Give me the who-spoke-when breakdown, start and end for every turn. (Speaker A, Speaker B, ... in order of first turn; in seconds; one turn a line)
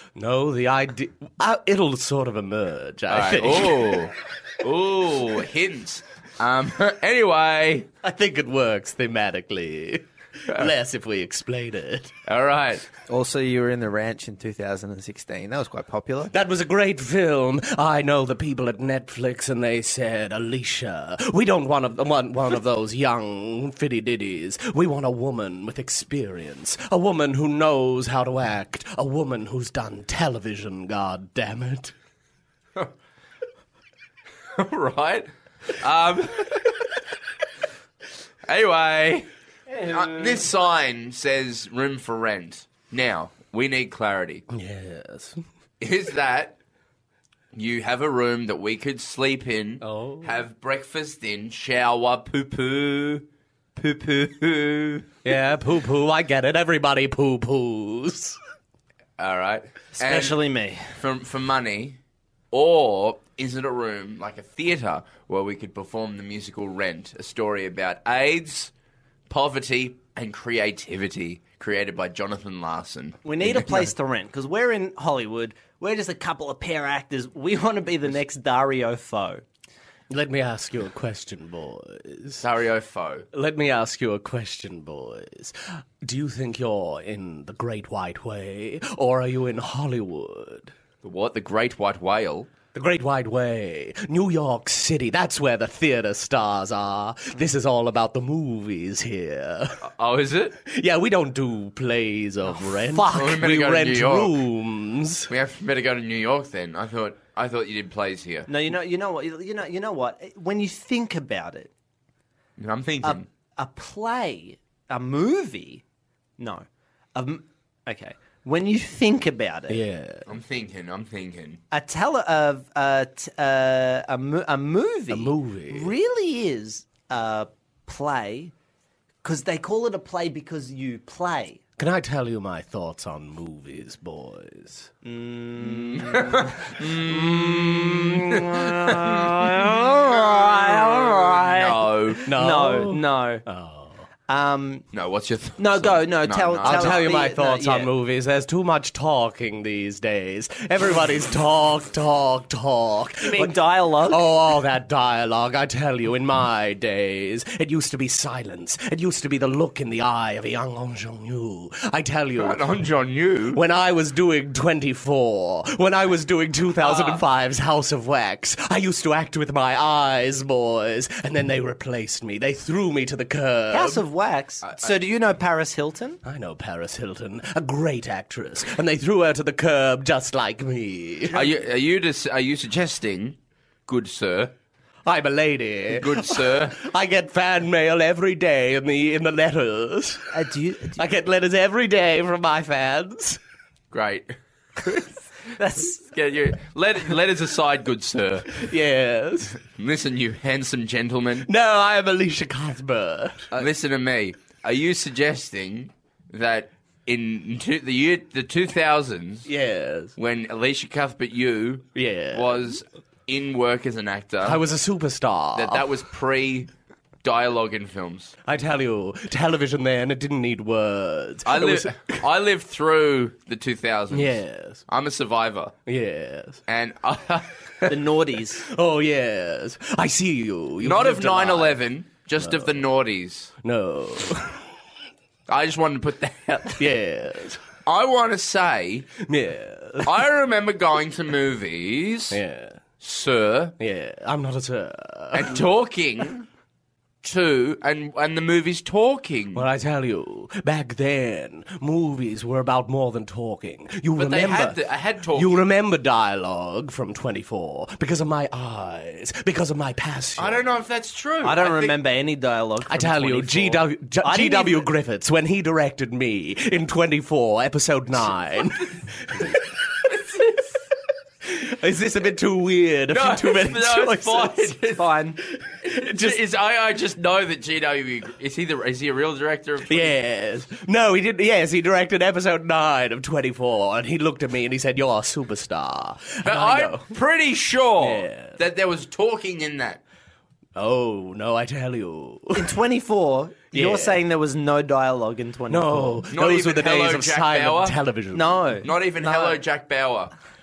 Speaker A: 0.1-4.0
Speaker B: 3.1-7.9
Speaker A: 8.0-12.1
Speaker B: 12.2-12.8
Speaker C: 13.1-16.3
Speaker A: 16.3-31.9
Speaker B: 34.5-36.7
Speaker B: 38.5-39.3
Speaker B: 39.8-44.4
Speaker A: 44.5-45.4
Speaker B: 45.8-46.6
Speaker B: 47.5-55.1
Speaker A: 49.8-50.4
Speaker A: 55.2-58.4
Speaker B: 59.2-60.4
Speaker D: 60.0-60.9
Speaker B: 60.9-62.0
Speaker B: 62.5-68.7
Speaker B: 69.3-73.8
Speaker D: 73.2-79.4
Speaker A: 80.1-82.4
Speaker B: 82.4-83.3
Speaker A: 83.3-90.7
Speaker B: 91.0-92.5
Speaker A: 92.7-99.8
Speaker B: 99.8-100.6
Speaker A: 100.6-105.3
Speaker D: 102.8-103.2
Speaker B: 103.1-104.4
Speaker B: 105.3-108.5
Speaker D: 108.5-111.7
Speaker B: 112.6-113.2
Speaker D: 113.0-115.8
Speaker D: 116.4-119.8
Speaker A: 119.7-120.3
Speaker B: 120.2-121.6
Speaker D: 121.7-128.5
Speaker A: 125.1-125.9
Speaker D: 129.2-131.6
Speaker A: 131.8-134.9
Speaker D: 135.0-143.4
Speaker B: 135.6-142.2
Speaker A: 142.2-144.0
Speaker D: 144.3-144.8
Speaker B: 144.9-147.1
Speaker D: 145.6-147.9
Speaker A: 146.6-162.6
Speaker D: 153.2-154.3
Speaker B: 162.4-163.6
Speaker A: 163.5-174.0
Speaker B: 166.8-167.2
Speaker D: 173.7-176.2
Speaker B: 174.6-174.9
Speaker A: 176.2-181.4
Speaker B: 181.3-184.5
Speaker A: 185.1-190.3
Speaker B: 185.9-186.8
Speaker D: 190.3-191.0
Speaker A: 190.9-193.4
Speaker B: 193.9-195.1
Speaker D: 195.6-196.0
Speaker B: 196.0-198.7
Speaker A: 198.5-199.6
Speaker B: 199.6-201.5
Speaker A: 201.4-203.5
Speaker B: 203.5-209.5
Speaker A: 209.4-210.1
Speaker B: 210.2-214.6
Speaker A: 211.9-212.7
Speaker A: 214.4-215.8
Speaker B: 215.5-216.7
Speaker B: 217.2-218.3
Speaker A: 218.4-222.2
Speaker B: 221.4-225.7
Speaker A: 224.1-224.8
Speaker A: 225.8-226.6
Speaker B: 226.7-227.9
Speaker D: 227.8-228.7
Speaker A: 228.6-231.8
Speaker B: 230.8-233.5
Speaker A: 232.4-232.8
Speaker A: 233.6-234.6
Speaker B: 235.5-236.9
Speaker A: 236.8-237.6
Speaker B: 237.8-239.1
Speaker A: 239.2-240.2
Speaker B: 240.0-242.4
Speaker A: 242.3-242.8
Speaker B: 243.0-243.7
Speaker A: 243.8-245.6
Speaker B: 245.3-246.4
Speaker B: 247.2-249.7
Speaker A: 249.5-254.8
Speaker B: 254.2-255.6
Speaker A: 255.3-260.6
Speaker B: 260.4-262.0
Speaker D: 261.4-264.9
Speaker A: 262.9-269.6
Speaker B: 270.1-270.7
Speaker A: 271.4-274.7
Speaker B: 273.1-275.1
Speaker D: 274.9-275.4
Speaker A: 275.6-276.4
Speaker B: 275.8-280.1
Speaker A: 279.9-287.1
Speaker B: 286.4-290.0
Speaker A: 288.0-288.6
Speaker A: 290.8-292.8
Speaker D: 292.6-296.2
Speaker A: 293.7-294.2
Speaker A: 295.7-298.7
Speaker B: 296.3-298.0
Speaker D: 298.3-299.6
Speaker B: 298.8-300.3